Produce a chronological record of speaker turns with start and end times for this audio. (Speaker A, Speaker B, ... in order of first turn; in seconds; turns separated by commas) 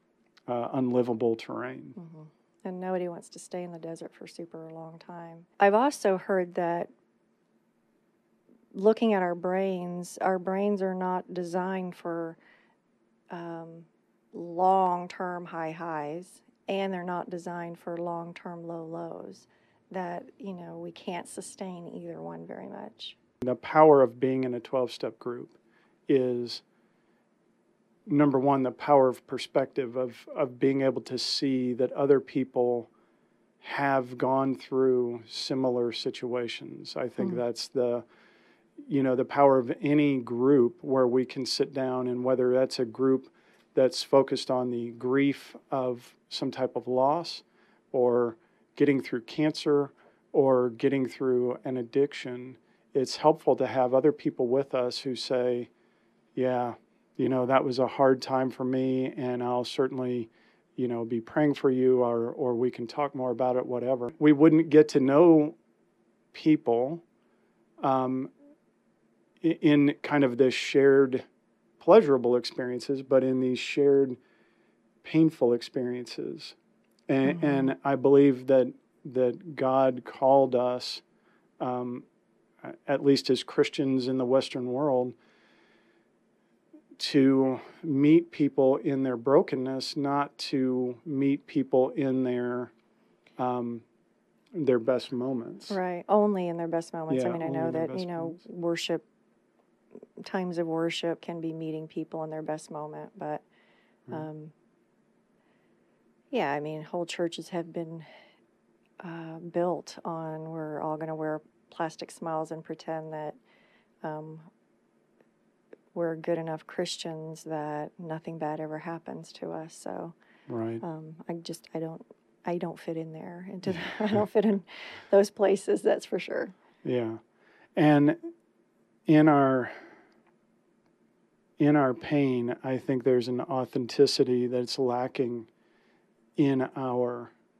Speaker A: 0.5-1.9, Speaker B: 1.9-6.9, Speaker B: 8.7-12.4, Speaker B: 13.3-23.2, Speaker A: 23.4-25.6, Speaker A: 26.1-26.6, Speaker A: 28.1-32.9, Speaker A: 33.6-38.0, Speaker A: 38.8-55.7, Speaker A: 56.3-65.6, Speaker A: 66.3-67.0, Speaker A: 67.8-68.3, Speaker A: 69.4-71.2, Speaker A: 71.8-74.2, Speaker A: 75.0-76.5, Speaker A: 77.1-81.0, Speaker B: 77.2-77.7, Speaker A: 81.6-82.0, Speaker A: 82.6-85.2, Speaker A: 87.0-92.7, Speaker A: 93.4-93.8, Speaker A: 94.5-95.8, Speaker B: 95.7-99.0, Speaker A: 97.1-98.4, Speaker B: 100.2-103.4, Speaker B: 104.1-104.5, Speaker B: 106.3-108.1, Speaker B: 109.0-113.4, Speaker B: 114.0-114.5, Speaker B: 115.9-120.1, Speaker A: 120.5-120.8, Speaker B: 120.8-126.5, Speaker A: 123.7-124.2, Speaker A: 126.8-127.2, Speaker A: 127.8-128.2, Speaker A: 129.1-129.8, Speaker A: 131.6-135.5, Speaker A: 136.3-137.3